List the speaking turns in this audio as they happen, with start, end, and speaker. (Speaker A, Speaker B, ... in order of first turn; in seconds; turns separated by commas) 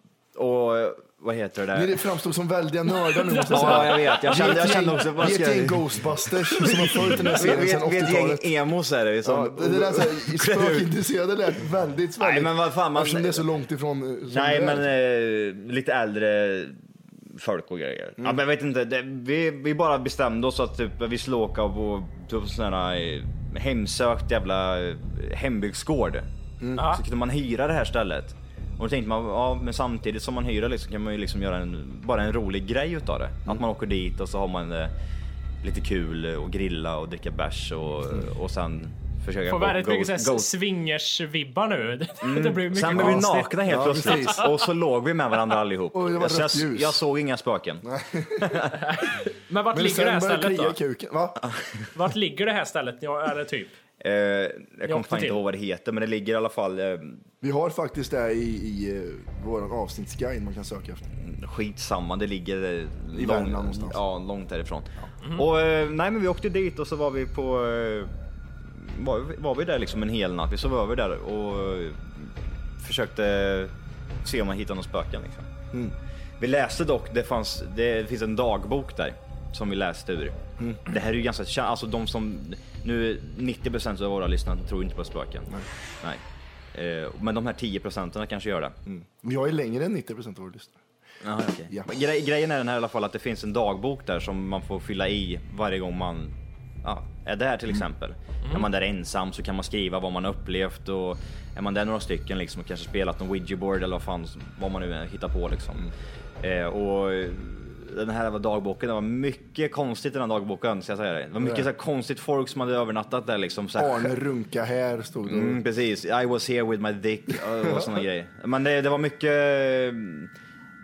Speaker A: 0.3-2.0, Speaker B: 1.7-8.4, Speaker A: 3.5-10.9, Speaker C: 3.5-3.9, Speaker B: 9.2-14.8, Speaker A: 12.2-13.4, Speaker A: 14.3-26.3, Speaker C: 26.8-27.0, Speaker A: 26.8-34.9, Speaker A: 35.6-40.5, Speaker C: 39.5-44.5, Speaker A: 42.2-47.8, Speaker B: 42.9-44.5, Speaker B: 45.9-47.0, Speaker B: 47.8-48.6, Speaker A: 48.4-48.8, Speaker C: 48.8-50.8, Speaker B: 49.7-51.4, Speaker C: 51.9-53.7, Speaker A: 54.0-57.2, Speaker C: 54.9-55.4, Speaker B: 57.4-61.0, Speaker A: 61.2-68.1, Speaker B: 63.1-64.0, Speaker A: 68.7-73.7, Speaker A: 74.2-75.5, Speaker A: 76.4-80.3, Speaker A: 80.8-85.5, Speaker A: 86.7-88.7, Speaker B: 88.9-90.8, Speaker A: 91.2-105.9, Speaker A: 106.4-114.1, Speaker B: 111.4-111.7, Speaker B: 113.8-115.6, Speaker A: 115.2-120.3, Speaker B: 117.6-118.0